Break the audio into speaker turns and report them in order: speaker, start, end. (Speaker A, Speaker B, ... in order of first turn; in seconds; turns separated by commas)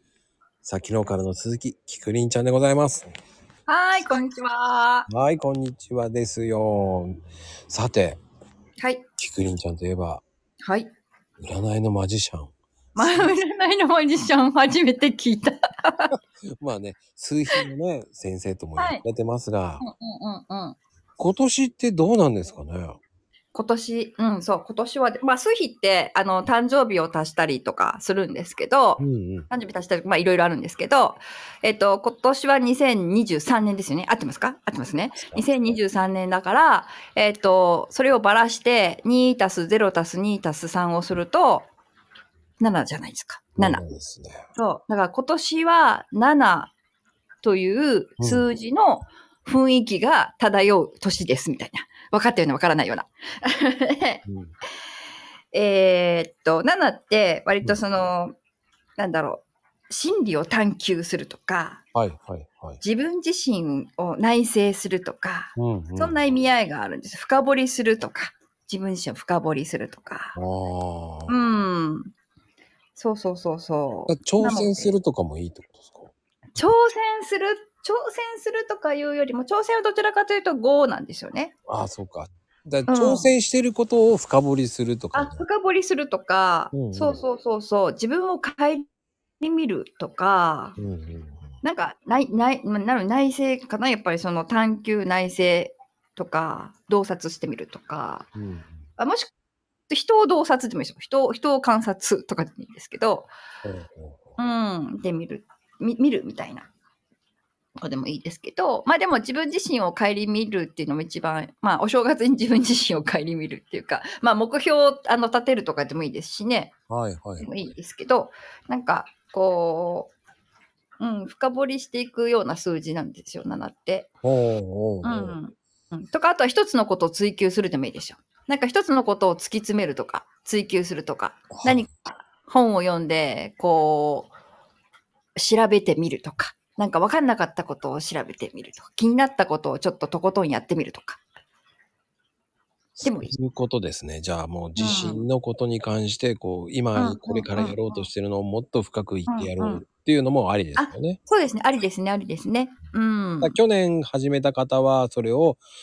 Speaker A: 0.6-3.1, Speaker B: 3.7-5.1, Speaker A: 5.1-8.2, Speaker B: 8.8-9.0, Speaker A: 9.2-10.2, Speaker B: 10.6-10.9, Speaker A: 11.4-13.3, Speaker B: 12.9-16.1, Speaker A: 16.1-19.8, Speaker B: 18.8-19.0, Speaker B: 19.8-20.8, Speaker A: 21.2-23.0, Speaker B: 23.5-41.7, Speaker A: 29.0-29.5, Speaker A: 35.1-35.5, Speaker B: 42.6-43.8, Speaker A: 43.6-44.4, Speaker B: 44.5-46.7, Speaker B: 47.4-54.2, Speaker A: 48.2-48.4, Speaker A: 54.3-54.5, Speaker B: 55.5-58.4, Speaker B: 59.0-61.8, Speaker A: 61.9-62.8, Speaker B: 62.8-70.3, Speaker A: 65.5-66.2, Speaker A: 70.3-71.3, Speaker B: 71.3-72.1, Speaker B: 73.0-74.9, Speaker A: 74.1-76.1, Speaker B: 76.5-81.5, Speaker A: 81.7-85.4, Speaker B: 82.9-83.3, Speaker B: 85.1-88.8, Speaker A: 86.7-87.2, Speaker B: 89.4-90.8, Speaker A: 90.8-91.5, Speaker B: 91.6-98.3, Speaker A: 98.3-98.8, Speaker B: 99.0-99.3, Speaker B: 99.9-103.3, Speaker A: 103.6-104.2, Speaker B: 104.4-106.7, Speaker B: 107.8-116.7, Speaker A: 116.9-117.5, Speaker B: 117.4-120.1, Speaker B: 121.0-124.1, Speaker A: 124.2-125.4, Speaker B: 125.0-134.3, Speaker A: 131.5-131.8, Speaker B: 135.3-141.2, Speaker A: 143.0-151.2, Speaker B: 143.0-143.3, Speaker B: 144.8-145.2, Speaker B: 146.9-148.1, Speaker B: 149.3-149.8, Speaker B: 150.8-153.6, Speaker A: 153.4-155.6